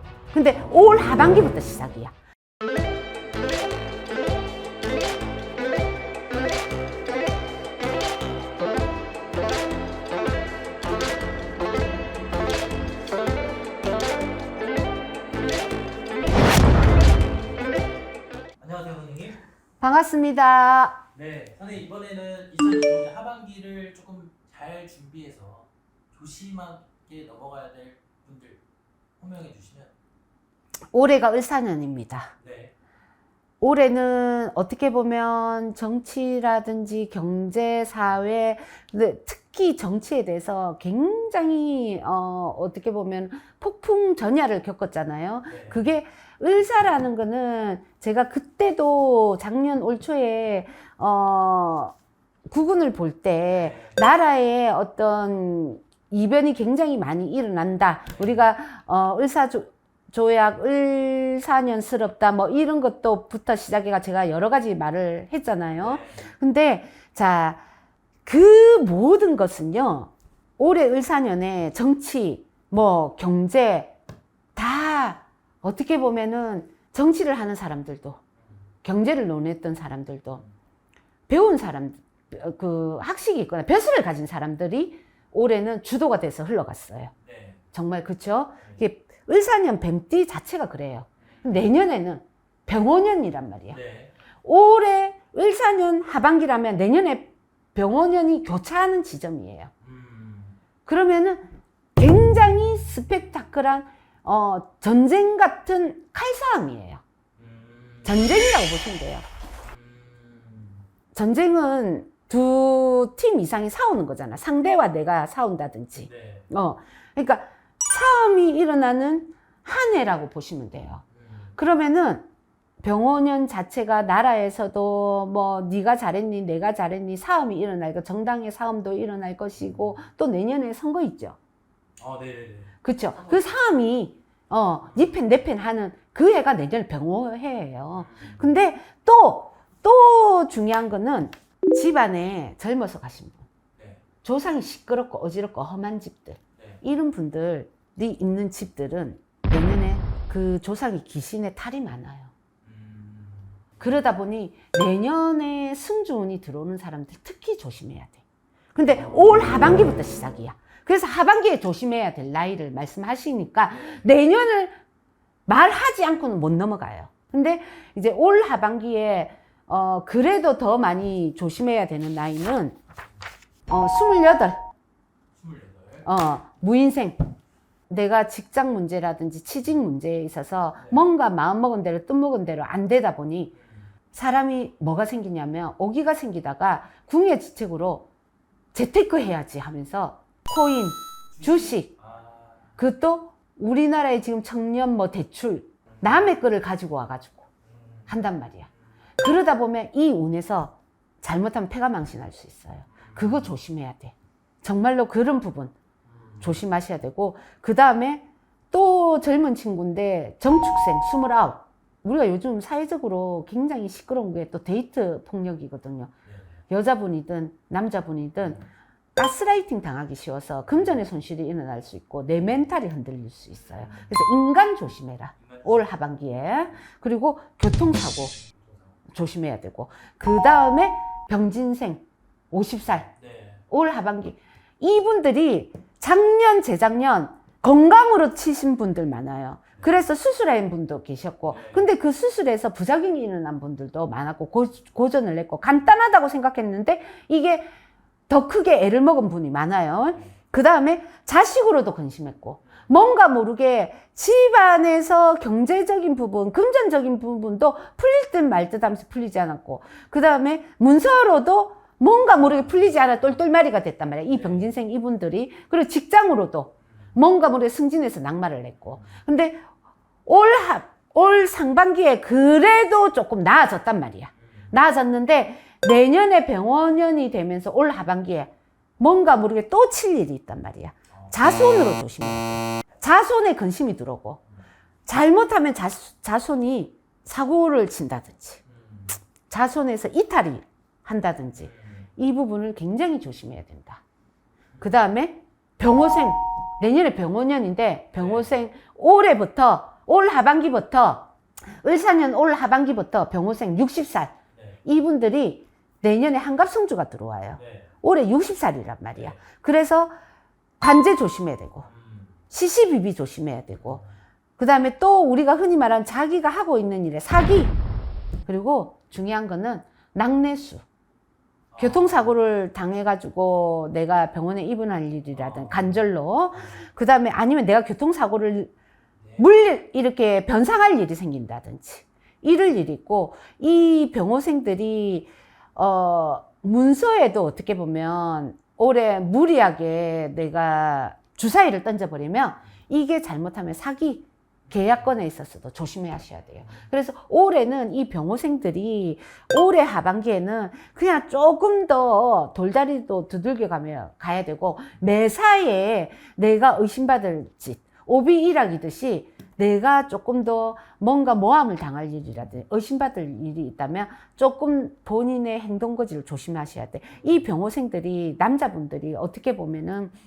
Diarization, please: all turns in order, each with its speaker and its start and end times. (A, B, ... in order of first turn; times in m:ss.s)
0:00.3-0:02.1 A
0:18.6-0:19.4 B
0:19.8-0:21.0 A
0:21.1-0:28.6 B
0:29.2-0:29.9 B
0:30.9-0:32.3 A
0:32.4-0:32.7 B
0:33.6-0:52.0 A
0:45.5-0:45.9 B
0:52.5-1:07.6 A
0:53.5-0:54.0 B
0:58.2-0:58.4 B
1:05.8-1:06.3 B
1:08.2-1:14.0 A
1:14.6-1:18.2 A
1:18.8-1:20.4 A
1:21.3-1:27.1 A
1:27.2-1:27.6 B
1:27.7-1:33.8 A
1:31.2-1:31.5 B
1:33.7-1:34.1 B
1:34.4-1:39.7 A
1:39.8-1:40.6 B
1:40.9-1:47.0 A
1:47.4-1:48.4 B
1:48.0-1:49.2 A
1:49.6-1:50.9 B
1:51.1-2:01.0 A
1:56.0-1:56.5 B
2:01.1-2:01.6 B
2:01.6-2:02.3 A
2:02.8-2:11.4 A
2:12.0-2:12.7 B
2:12.8-2:23.4 A
2:17.9-2:18.5 B
2:23.8-2:24.0 B
2:24.2-2:32.3 A
2:32.6-2:34.0 B
2:33.8-2:38.2 A
2:38.8-2:44.8 A
2:43.7-2:44.0 B
2:45.5-2:52.8 A
2:53.7-2:54.6 A
2:55.4-2:56.1 B
2:56.0-2:57.2 A
2:57.9-3:03.5 A
3:00.8-3:01.0 B
3:03.6-3:03.9 B
3:04.1-3:08.1 A
3:08.7-3:11.9 A
3:11.3-3:12.8 B
3:12.8-3:17.5 A
3:15.9-3:16.3 B
3:17.6-3:18.2 B
3:18.1-3:25.8 A
3:22.9-3:23.6 B
3:26.0-3:26.6 B
3:26.4-3:36.1 A
3:36.2-3:36.6 B
3:36.7-3:38.6 A
3:39.2-3:48.4 A
3:43.5-3:44.1 B
3:45.4-3:45.8 B
3:48.5-3:49.0 B
3:49.1-3:53.1 A
3:53.2-3:53.6 B
3:53.7-4:07.7 A
4:01.5-4:01.9 B
4:08.3-4:29.7 A
4:24.3-4:24.7 B
4:30.2-4:44.4 A
4:34.4-4:34.7 B
4:41.1-4:41.4 B
4:45.1-4:48.6 A
4:48.7-4:49.2 B
4:49.5-4:54.0 A
4:51.6-4:52.1 B
4:54.8-5:10.1 A
4:58.2-4:58.5 B
5:04.5-5:04.8 B
5:07.6-5:07.9 B
5:10.8-5:11.9 A
5:11.8-5:12.4 B
5:12.5-5:14.0 A
5:13.8-5:14.1 B
5:14.6-5:17.8 A
5:18.5-5:20.8 A
5:21.7-5:22.3 B
5:21.8-5:28.7 A
5:25.3-5:26.0 B
5:29.2-5:29.4 B
5:29.4-6:10.1 A
5:44.7-5:45.1 B
6:07.2-6:07.4 B